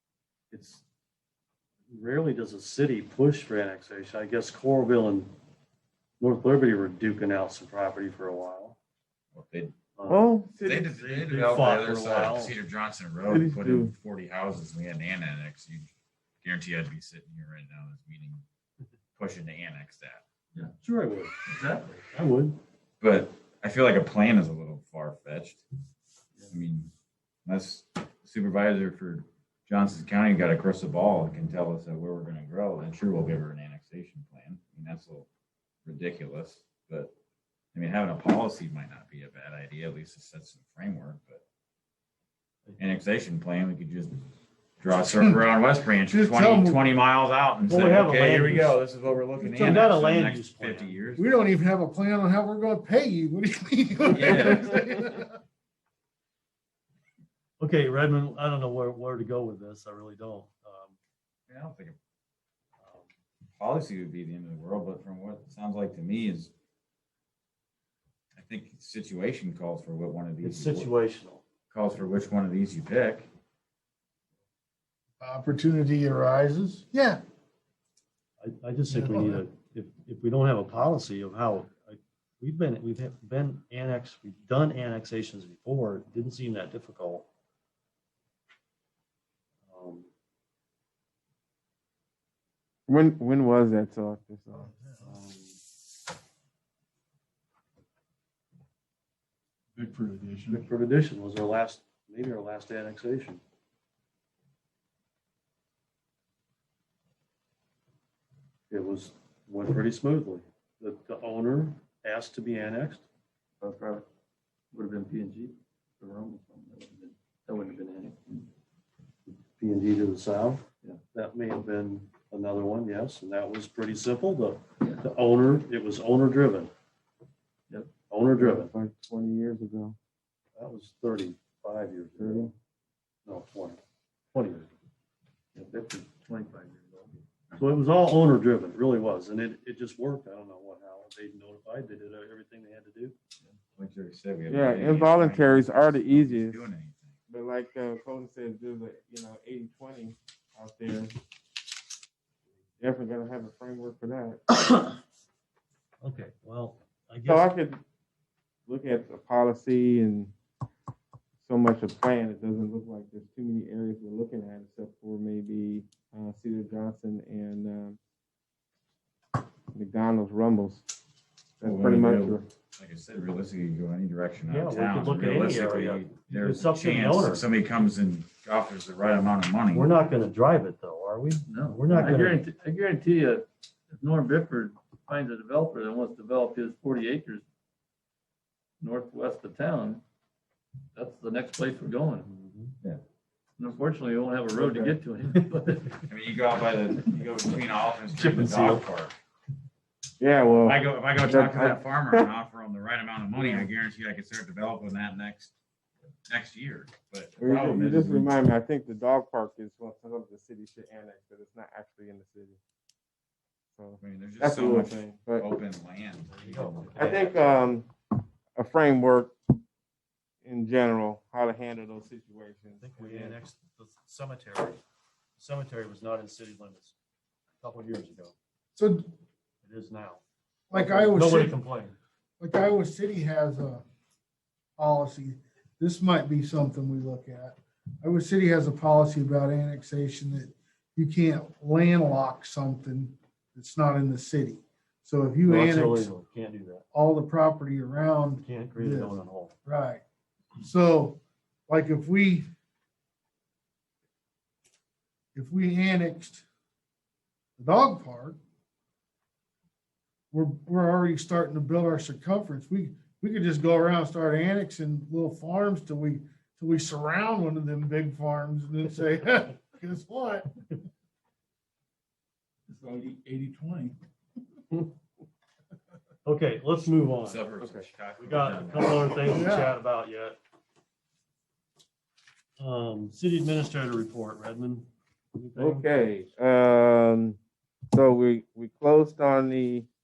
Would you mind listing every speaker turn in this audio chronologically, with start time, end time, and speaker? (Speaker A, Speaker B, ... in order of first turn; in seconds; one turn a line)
Speaker A: 0.5-0.8
Speaker A: 1.9-5.3
Speaker A: 6.2-8.8
Speaker B: 9.3-9.8
Speaker A: 10.0-10.3
Speaker C: 10.1-10.9
Speaker B: 10.6-18.4
Speaker A: 11.0-12.6
Speaker C: 13.3-13.9
Speaker B: 19.1-20.2
Speaker A: 20.8-21.4
Speaker D: 21.5-22.0
Speaker A: 22.1-22.6
Speaker B: 23.0-25.6
Speaker B: 26.5-26.9
Speaker B: 27.5-35.3
Speaker B: 35.9-37.1
Speaker B: 37.7-41.4
Speaker B: 42.8-44.2
Speaker B: 44.8-51.3
Speaker E: 46.1-46.9
Speaker A: 47.7-48.8
Speaker E: 49.4-49.9
Speaker A: 49.5-51.0
Speaker E: 51.2-55.3
Speaker B: 54.0-55.0
Speaker A: 57.6-61.0
Speaker B: 61.5-62.0
Speaker A: 62.8-63.1
Speaker B: 63.5-66.5
Speaker B: 68.3-70.9
Speaker A: 70.4-71.4
Speaker B: 71.7-73.3
Speaker E: 75.2-77.2
Speaker A: 78.4-87.3
Speaker E: 78.9-79.4
Speaker A: 89.7-90.1
Speaker C: 92.9-94.7
Speaker A: 95.0-95.6
Speaker D: 99.8-100.0
Speaker A: 100.5-103.4
Speaker A: 108.7-113.0
Speaker D: 113.6-114.0
Speaker D: 114.7-118.5
Speaker A: 119.3-126.7
Speaker D: 124.8-125.0
Speaker D: 127.7-128.0
Speaker A: 128.1-128.7
Speaker C: 128.4-129.9
Speaker A: 130.5-132.5
Speaker C: 132.2-132.5
Speaker A: 133.2-133.8
Speaker A: 134.3-134.7
Speaker D: 135.5-137.6
Speaker A: 137.6-143.1
Speaker B: 143.8-147.2
Speaker C: 144.5-146.6
Speaker C: 147.3-151.1
Speaker C: 152.8-154.5
Speaker A: 156.0-157.5
Speaker C: 157.2-157.8
Speaker C: 158.7-160.3
Speaker C: 161.4-168.0
Speaker C: 169.7-170.8
Speaker C: 171.6-172.4
Speaker B: 171.6-179.9
Speaker A: 174.5-177.4
Speaker A: 179.7-182.4
Speaker D: 181.5-187.4
Speaker D: 188.8-190.0
Speaker D: 190.9-192.3
Speaker A: 192.2-192.7
Speaker D: 193.6-196.0
Speaker C: 194.5-194.9
Speaker B: 196.1-199.1
Speaker A: 198.1-198.8
Speaker C: 200.2-202.2
Speaker B: 200.6-205.5
Speaker C: 203.3-203.7
Speaker B: 206.3-208.3
Speaker C: 207.4-212.6
Speaker C: 213.7-215.5
Speaker B: 214.0-217.4
Speaker A: 216.3-217.3
Speaker C: 217.0-217.9
Speaker C: 218.6-219.4
Speaker C: 220.4-223.4
Speaker A: 222.8-224.8
Speaker A: 225.4-226.9
Speaker A: 227.6-228.3
Speaker E: 228.8-229.1
Speaker A: 229.6-230.2
Speaker E: 230.7-231.6
Speaker A: 230.7-231.9
Speaker E: 232.4-233.8
Speaker E: 234.8-246.1
Speaker A: 245.5-246.8
Speaker E: 246.9-250.0
Speaker A: 248.4-249.5
Speaker E: 250.6-252.5
Speaker E: 255.3-256.4
Speaker E: 257.6-258.4
Speaker E: 260.3-270.6
Speaker D: 272.7-274.0
Speaker A: 276.2-277.4
Speaker B: 277.2-279.2
Speaker A: 278.2-280.4
Speaker E: 279.2-279.8
Speaker A: 282.6-286.0
Speaker C: 285.6-287.4
Speaker C: 287.9-289.9